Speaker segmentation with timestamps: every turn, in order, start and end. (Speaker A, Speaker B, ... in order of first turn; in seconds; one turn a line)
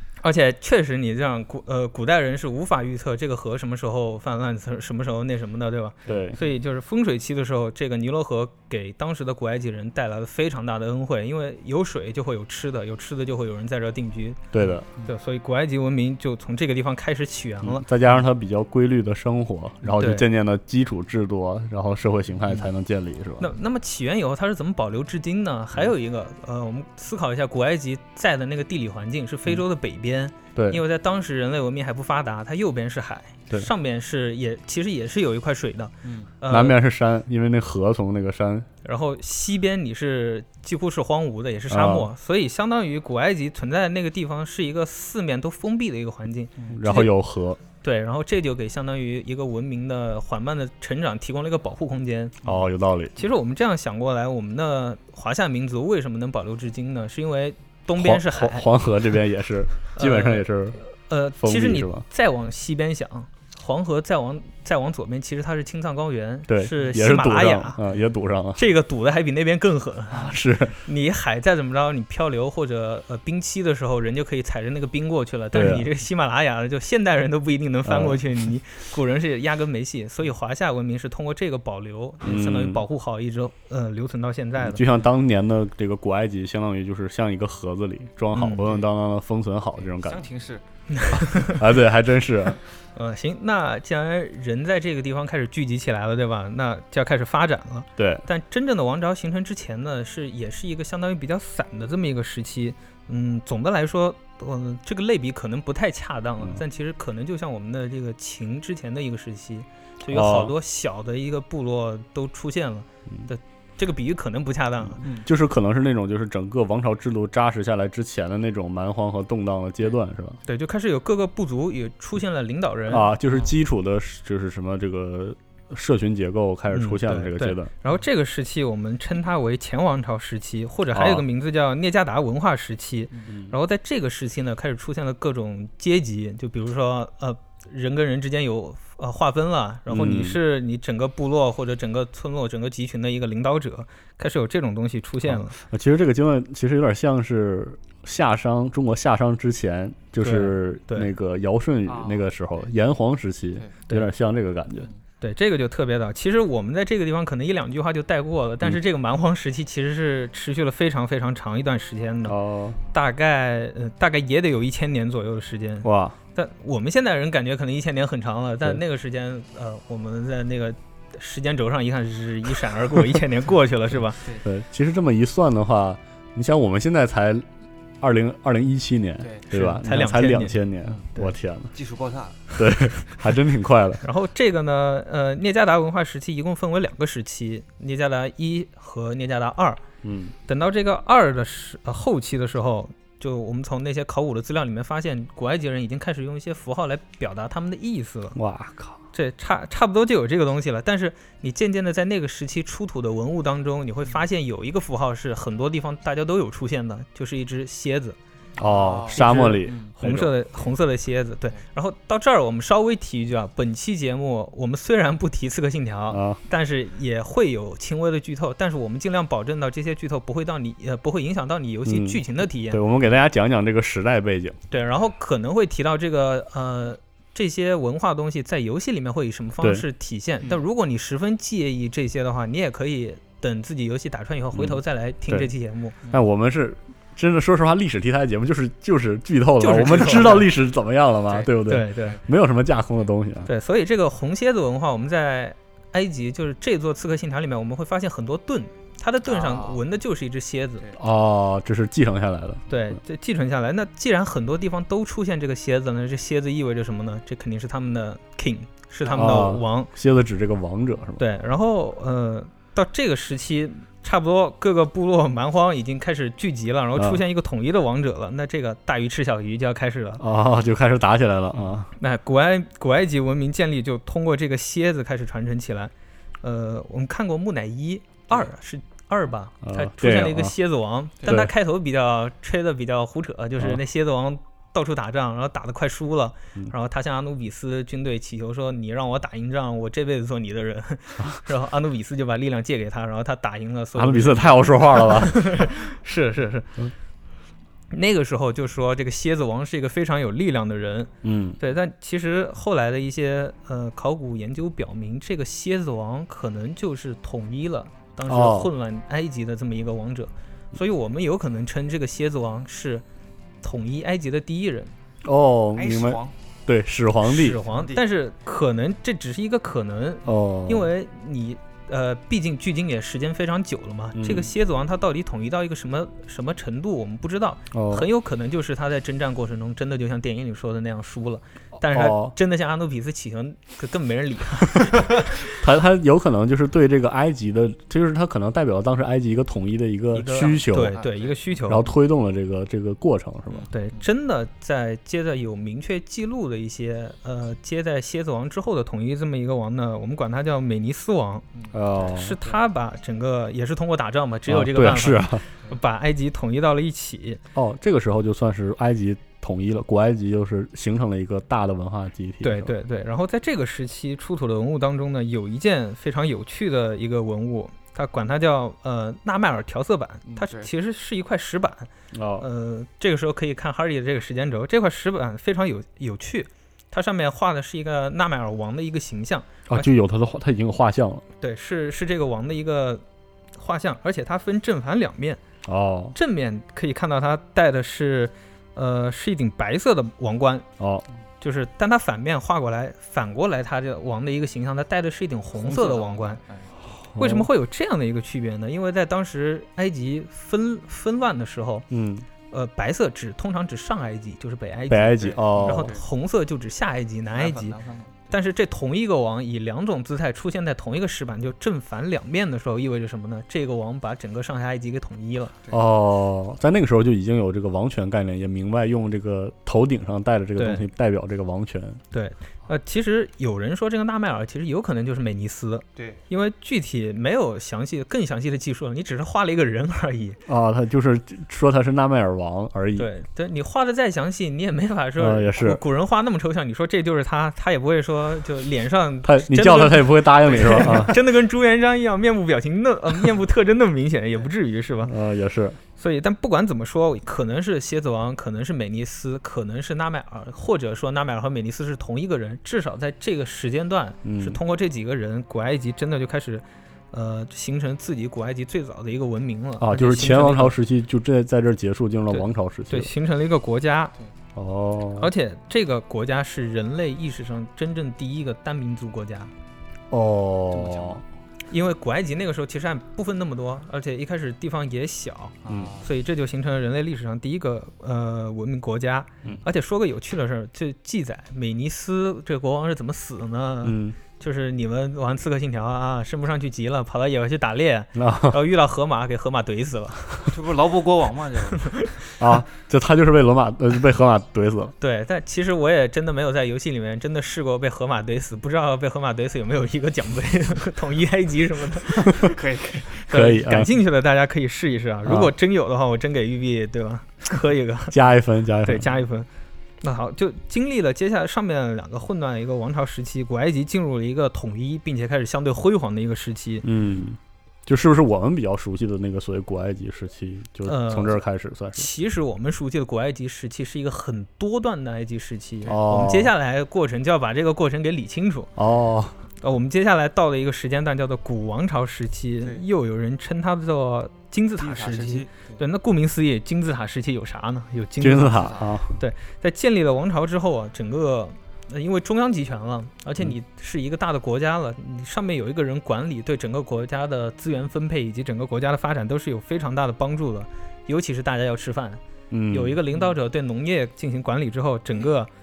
Speaker A: 0.2-14.4
Speaker B: 6.1-6.4
Speaker B: 14.5-14.9
Speaker A: 15.0-17.8
Speaker B: 17.6-23.5
Speaker A: 19.9-20.2
Speaker A: 23.4-36.8
Speaker B: 30.5-30.8
Speaker C: 36.0-36.3
Speaker B: 36.5-38.7
Speaker A: 38.8-47.1
Speaker B: 41.7-42.1
Speaker B: 46.7-47.6
Speaker A: 47.8-52.4
Speaker B: 52.4-53.1
Speaker A: 53.1-58.7
Speaker B: 58.0-60.8
Speaker A: 60.0-60.5
Speaker A: 61.1-67.8
Speaker B: 61.4-62.0
Speaker B: 66.5-68.6
Speaker A: 68.5-84.8
Speaker B: 70.1-70.8
Speaker B: 75.5-75.9
Speaker B: 77.8-78.2
Speaker B: 82.2-82.8
Speaker B: 84.6-90.2
Speaker A: 88.3-88.7
Speaker C: 89.8-90.6
Speaker A: 90.9-91.6
Speaker B: 91.2-92.6
Speaker A: 93.0-115.0
Speaker B: 98.0-98.2
Speaker B: 110.1-110.5
Speaker B: 115.0-120.4
Speaker A: 120.5-123.1
Speaker B: 122.9-127.7
Speaker A: 126.7-145.6
Speaker B: 130.9-131.2
Speaker B: 133.3-133.5
Speaker B: 139.9-140.4
Speaker B: 145.2-154.9
Speaker A: 150.2-151.1
Speaker C: 151.8-152.7
Speaker A: 155.2-162.3
Speaker B: 162.2-162.8
Speaker A: 162.9-174.2
Speaker B: 165.8-166.2
Speaker B: 174.4-177.4
Speaker B: 178.0-181.7
Speaker C: 179.2-179.5
Speaker A: 179.5-180.6
Speaker C: 181.7-182.5
Speaker B: 182.6-184.0
Speaker A: 184.0-189.8
Speaker B: 190.0-190.3
Speaker A: 190.5-198.4
Speaker B: 198.3-199.0
Speaker A: 199.1-208.2
Speaker B: 208.6-210.3
Speaker C: 208.6-209.9
Speaker A: 209.1-222.8
Speaker B: 216.1-216.4
Speaker B: 221.8-224.6
Speaker A: 224.7-236.0
Speaker B: 234.5-235.5
Speaker B: 236.1-243.5
Speaker A: 239.6-240.5
Speaker A: 241.7-242.2
Speaker A: 243.4-250.9
Speaker C: 249.2-249.8
Speaker B: 250.9-252.6
Speaker A: 252.7-259.9
Speaker C: 259.0-259.3
Speaker B: 259.1-261.2
Speaker A: 261.2-270.2
Speaker B: 266.9-267.2
Speaker B: 270.2-271.9
Speaker A: 272.0-296.7
Speaker B: 279.6-280.5
Speaker B: 281.2-281.5
Speaker B: 293.9-295.7
Speaker A: 297.9-313.0
Speaker B: 301.2-301.6
Speaker B: 308.3-308.7
Speaker A: 313.6-314.9
Speaker B: 315.2-317.6
Speaker C: 315.8-316.3
Speaker A: 317.2-335.2
Speaker C: 317.7-318.0
Speaker B: 320.2-320.9
Speaker B: 324.1-324.5
Speaker B: 327.7-328.1
Speaker B: 331.8-332.3
Speaker B: 335.5-341.0
Speaker A: 340.1-341.9
Speaker C: 340.4-341.4
Speaker B: 341.7-343.7
Speaker C: 343.5-344.0
Speaker A: 343.7-351.4
Speaker C: 351.5-352.6
Speaker B: 351.7-352.4
Speaker A: 352.0-357.4
Speaker B: 354.5-355.4
Speaker B: 357.5-362.7
Speaker A: 362.4-379.9
Speaker C: 370.2-370.7
Speaker B: 372.1-372.5
Speaker B: 379.7-381.2
Speaker A: 381.4-383.0
Speaker A: 383.6-385.4
Speaker B: 385.6-386.1
Speaker A: 386.1-390.6
Speaker B: 390.8-391.0
Speaker A: 391.4-396.4
Speaker C: 395.6-396.7
Speaker B: 397.0-397.5
Speaker A: 397.2-401.9
Speaker B: 401.9-402.2
Speaker A: 402.5-407.8
Speaker B: 404.9-405.9
Speaker C: 405.2-406.0
Speaker C: 407.3-408.3
Speaker A: 408.3-415.5
Speaker B: 415.7-422.0
Speaker A: 420.6-420.9
Speaker A: 422.1-430.4
Speaker B: 430.5-433.1
Speaker A: 432.9-445.1
Speaker B: 435.2-435.8
Speaker B: 439.2-441.2
Speaker B: 445.0-445.8
Speaker A: 446.0-460.7
Speaker B: 454.2-454.6
Speaker B: 459.8-463.1
Speaker A: 462.3-464.1
Speaker B: 464.6-465.3
Speaker A: 465.2-469.5
Speaker B: 470.1-471.2
Speaker C: 470.7-471.2
Speaker A: 471.7-490.2
Speaker C: 475.6-476.1
Speaker B: 475.7-475.9
Speaker B: 483.8-484.2
Speaker B: 488.1-488.6
Speaker C: 490.5-491.9
Speaker B: 492.4-494.9
Speaker A: 495.0-502.5
Speaker C: 502.4-503.2
Speaker B: 503.3-503.9
Speaker A: 503.3-508.2
Speaker B: 505.2-505.5
Speaker B: 508.1-509.1
Speaker A: 508.8-509.5
Speaker A: 510.0-516.9
Speaker B: 516.8-522.1
Speaker A: 520.9-521.4
Speaker A: 521.9-528.7
Speaker B: 525.9-526.5
Speaker B: 528.8-529.4
Speaker A: 529.6-555.5
Speaker C: 534.8-535.8
Speaker B: 538.2-539.1
Speaker C: 538.5-538.9
Speaker B: 552.5-553.0